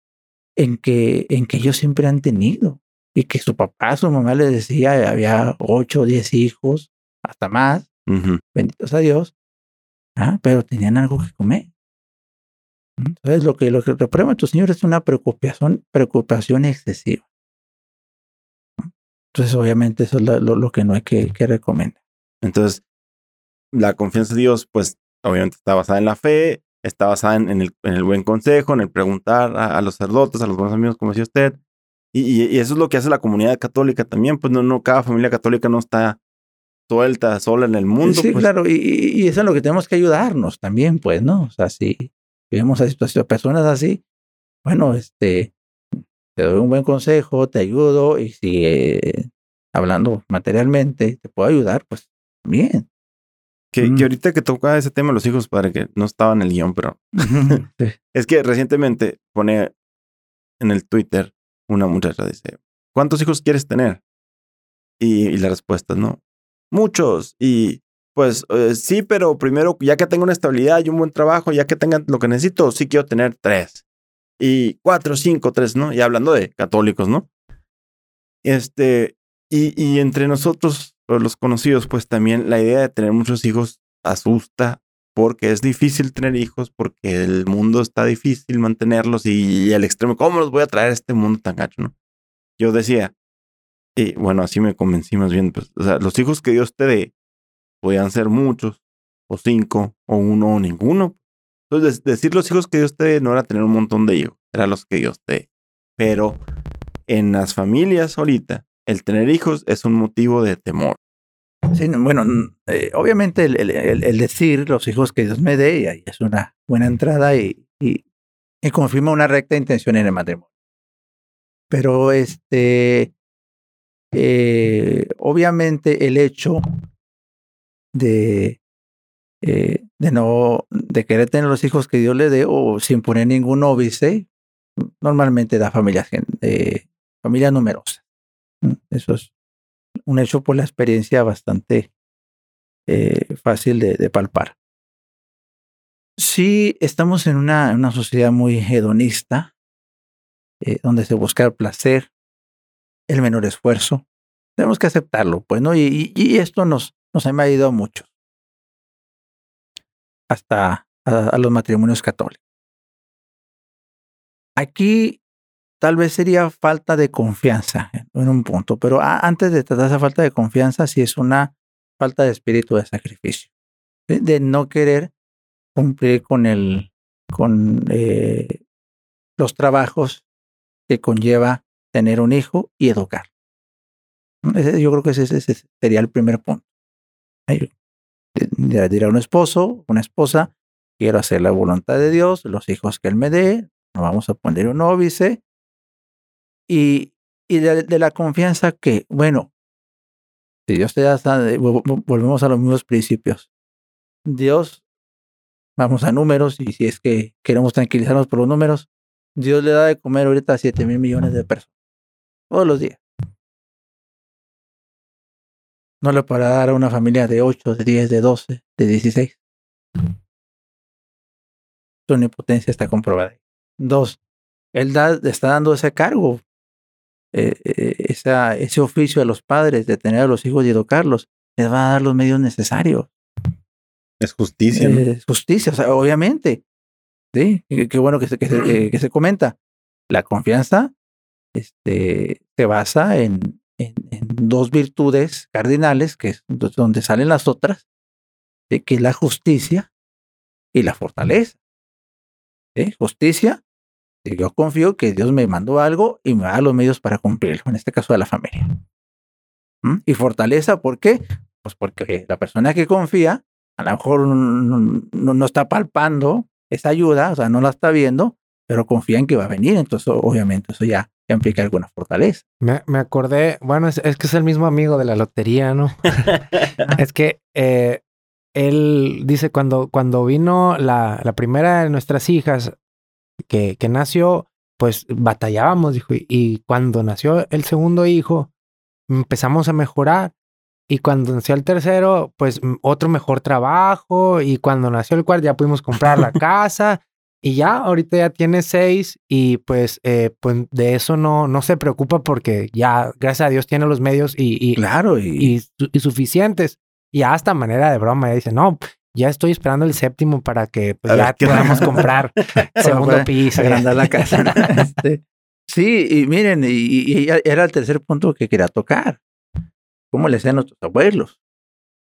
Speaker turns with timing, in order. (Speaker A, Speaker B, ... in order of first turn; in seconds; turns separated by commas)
Speaker A: 0.6-7.9, Speaker B: 8.1-8.4, Speaker A: 8.6-9.3, Speaker A: 10.2-11.7, Speaker A: 13.0-17.2, Speaker A: 18.8-22.0, Speaker B: 22.4-22.8, Speaker B: 23.7-31.6, Speaker B: 32.1-36.2, Speaker B: 36.9-38.5, Speaker A: 38.0-44.0, Speaker A: 44.6-52.9, Speaker B: 53.7-57.6, Speaker A: 57.2-58.0, Speaker B: 58.1-59.7, Speaker B: 60.6-64.0, Speaker B: 65.0-66.2, Speaker B: 66.7-73.8, Speaker B: 74.4-77.3, Speaker B: 78.4-91.9, Speaker B: 92.6-93.1, Speaker B: 94.0-97.1, Speaker B: 97.8-101.2, Speaker B: 101.7-105.5, Speaker B: 106.0-106.4, Speaker B: 107.1-111.0, Speaker A: 111.7-118.0, Speaker A: 118.6-120.5, Speaker A: 121.7-123.1, Speaker A: 124.1-126.6, Speaker A: 127.9-128.6, Speaker A: 129.4-134.3, Speaker A: 134.8-138.0, Speaker A: 138.6-139.3, Speaker A: 140.1-141.9, Speaker A: 142.9-144.6, Speaker A: 146.2-149.5, Speaker A: 150.6-152.1, Speaker A: 153.1-154.0, Speaker A: 154.6-158.1, Speaker A: 160.3-162.4, Speaker A: 164.6-165.2, Speaker A: 165.8-173.5, Speaker A: 174.1-175.1, Speaker A: 175.8-178.6, Speaker A: 179.4-180.2, Speaker A: 180.9-183.3, Speaker A: 184.4-186.7, Speaker A: 188.3-195.4, Speaker A: 196.7-199.5, Speaker A: 200.7-203.5, Speaker A: 204.3-204.8, Speaker A: 205.8-211.7, Speaker A: 212.5-213.0, Speaker A: 216.0-219.4, Speaker A: 222.1-224.2, Speaker A: 224.7-226.4, Speaker A: 227.3-233.1, Speaker B: 234.2-235.0, Speaker A: 234.7-236.6, Speaker A: 237.3-239.6, Speaker A: 240.1-240.9, Speaker A: 241.5-247.8, Speaker A: 248.7-249.9, Speaker A: 250.7-251.6, Speaker A: 252.8-253.6, Speaker A: 254.2-258.8, Speaker A: 259.8-272.4, Speaker C: 272.6-278.0, Speaker C: 278.6-282.8, Speaker C: 283.4-288.5, Speaker C: 289.1-290.3, Speaker C: 290.9-304.9, Speaker A: 304.8-305.5, Speaker C: 305.4-314.6, Speaker B: 311.1-312.1, Speaker A: 311.5-311.8, Speaker A: 312.8-319.2, Speaker A: 320.1-321.4